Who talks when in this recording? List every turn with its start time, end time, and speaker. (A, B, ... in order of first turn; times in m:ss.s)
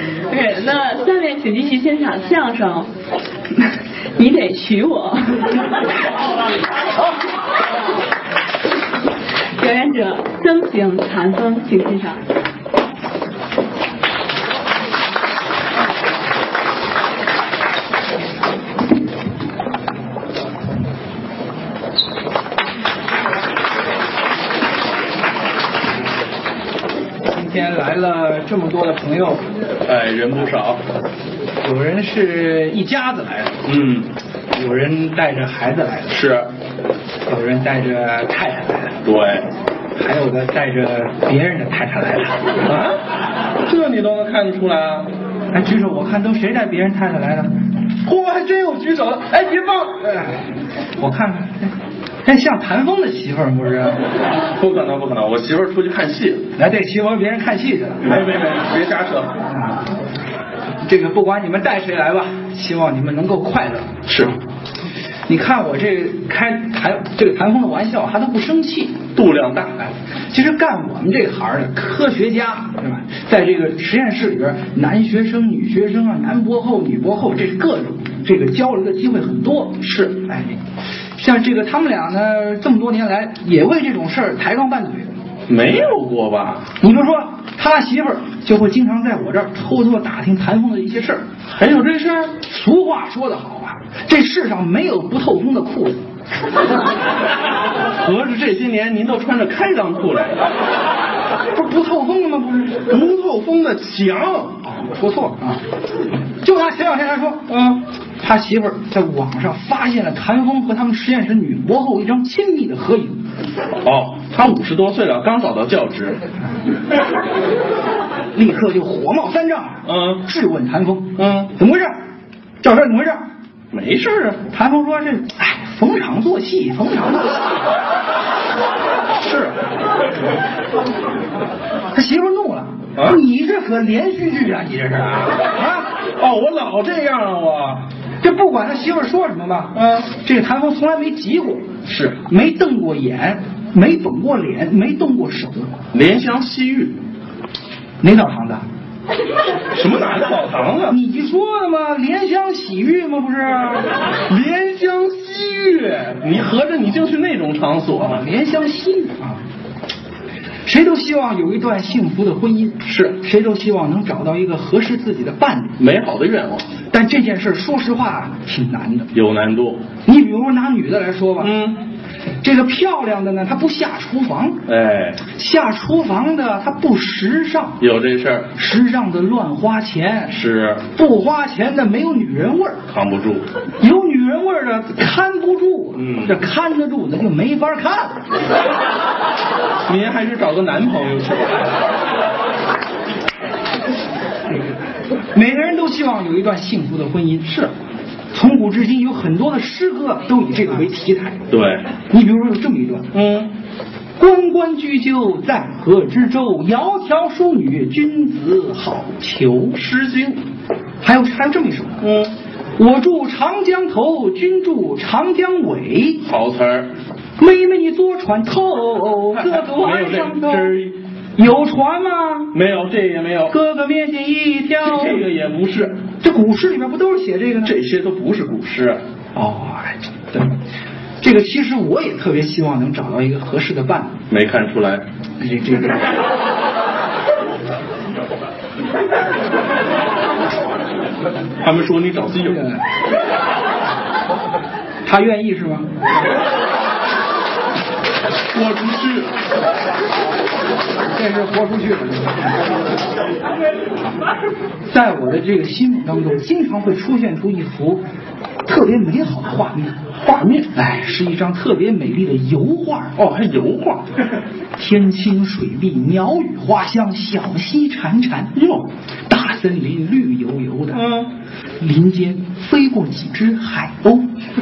0:00.3-0:02.9 A
0:03.6-0:05.6 A
0:09.6-0:12.2 A
0:27.2-0:29.4 B
0:29.8-0:30.8 C
0:31.6-0:33.6 B
0:33.6-0:34.1 C
0:34.5-0:36.2 B
0:36.1-0:36.5 C
0:37.3-0:39.0 B
0:39.0-0:39.5 C
0:40.0-0:42.4 B
0:42.6-0:43.0 C
0:43.6-0:45.1 C
0:45.5-0:47.5 B
0:48.0-0:50.0 C
0:50.0-0:50.3 B
0:51.0-0:51.7 B
0:52.2-0:54.0 B
0:54.5-0:56.5 C
0:56.6-0:58.2 B
0:58.0-0:59.4 C
0:59.5-0:59.8 B
1:00.8-1:03.9 B
1:04.0-1:04.3 C
1:05.3-1:09.0 B
1:09.1-1:09.7 C
1:09.8-1:20.6 B
1:19.8-1:20.1 C
1:21.2-1:25.1 B
1:25.5-1:26.7 C
1:26.8-1:31.3 B
1:31.5-1:32.4 C
1:32.4-1:36.1 B
1:37.9-1:40.4 C
1:41.5-1:42.8 B
1:42.9-1:44.6 C
1:44.6-1:45.6 B
1:46.4-1:47.5 B
1:47.5-1:47.8 C
1:48.2-1:53.2 B
1:53.8-1:56.2 C
1:58.3-2:02.0 B
1:59.8-2:00.2 C
2:01.2-2:01.5 C
2:02.6-2:03.2 B
2:03.7-2:04.4 C
2:04.5-2:07.3 B
2:09.2-2:09.6 C
2:11.9-2:15.9 B
2:16.2-2:17.9 C
2:18.2-2:21.7 B
2:19.7-2:20.1 C
2:21.8-2:22.2 C
2:22.2-2:25.7 B
2:25.9-2:27.0 C
2:28.0-2:28.6 B
2:29.7-2:31.0 C
2:30.9-2:33.9 B
2:34.3-2:38.2 C
2:38.0-2:39.4 B
2:40.6-2:45.8 B
2:42.8-2:43.2 C
2:45.8-2:46.7 C
2:46.9-2:49.1 B
2:49.1-2:49.8 C
2:50.0-2:51.6 B
2:51.4-2:51.8 C
2:52.4-2:54.6 B
2:54.7-2:55.2 C
2:55.2-2:57.8 B
2:57.8-2:58.5 C
2:58.5-3:00.3 B
3:00.3-3:00.9 C
3:00.9-3:02.8 B
3:02.9-3:03.5 C
3:03.8-3:08.2 B
3:06.0-3:06.4 C
3:09.8-3:11.6 C
3:15.3-3:17.6 B
3:18.3-3:21.5 B
3:21.5-3:21.9 C
3:22.1-3:23.1 B
3:23.1-3:23.5 C
3:24.2-3:29.8 B
3:29.7-3:30.4 C
3:31.0-3:32.0 B
3:32.0-3:32.3 C
3:32.8-3:36.2 B
3:36.2-3:36.9 C
3:37.4-3:40.8 B
3:39.3-3:41.0 C
3:41.4-3:42.5 B
3:42.5-3:43.6 C
3:43.5-3:45.2 B
3:44.8-3:46.0 C
3:46.2-3:47.7 B
3:47.6-3:49.0 C
3:49.3-3:50.5 B
3:51.2-3:54.2 B
3:54.3-3:55.0 C
3:55.4-3:56.1 B
4:01.6-4:02.6 C
4:02.4-4:02.8 B
4:05.0-4:05.9 B
4:08.5-4:09.4 C
4:11.1-4:12.5 B
4:14.9-4:18.0 B
4:18.6-4:19.9 B
4:20.1-4:20.7 C
4:20.7-4:23.2 B
4:23.2-4:24.2 C
4:24.8-4:31.1 B
4:30.9-4:31.3 C
4:31.8-4:34.3 B